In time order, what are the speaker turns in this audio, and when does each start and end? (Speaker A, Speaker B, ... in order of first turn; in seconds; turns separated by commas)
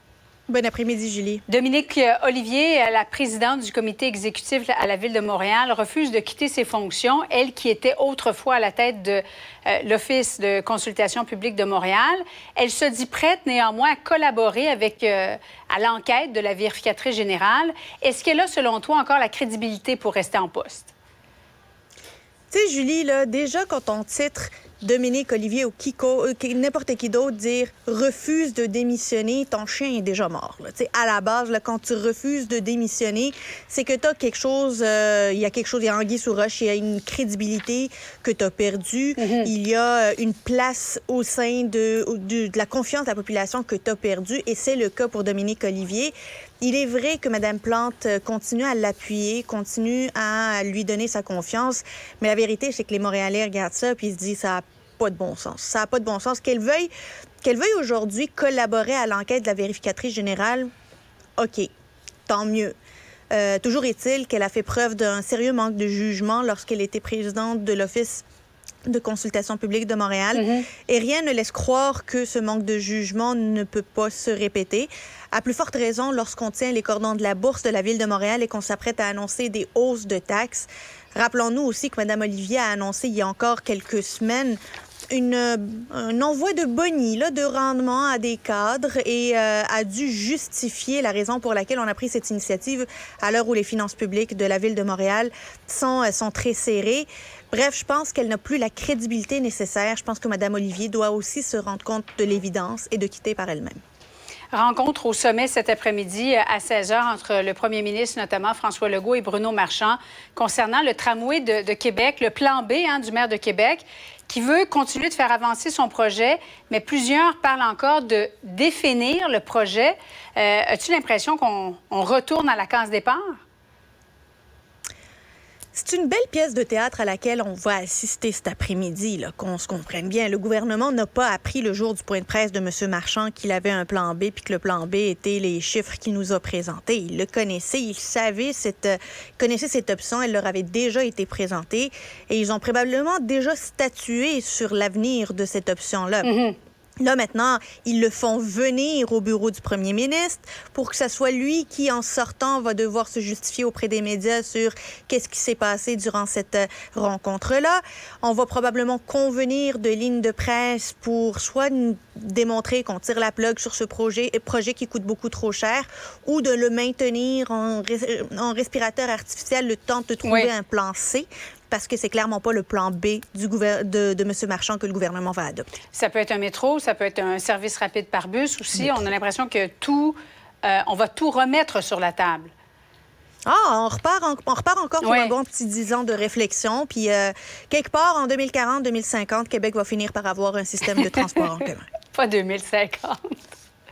Speaker A: 0.5-1.4, Speaker B: 1.5-20.9, Speaker A: 22.5-56.9, Speaker B: 39.2-39.5, Speaker A: 57.4-60.7, Speaker A: 61.4-61.7, Speaker A: 62.3-62.8, Speaker A: 63.3-68.2, Speaker A: 68.9-84.6, Speaker B: 70.3-70.7, Speaker A: 85.1-103.8, Speaker B: 104.5-123.4, Speaker A: 125.7-146.3, Speaker B: 146.2-146.6, Speaker A: 147.0-175.7, Speaker B: 170.2-170.5, Speaker B: 175.9-182.5, Speaker A: 178.8-179.0, Speaker A: 183.4-191.9, Speaker B: 185.0-185.3, Speaker B: 192.1-193.4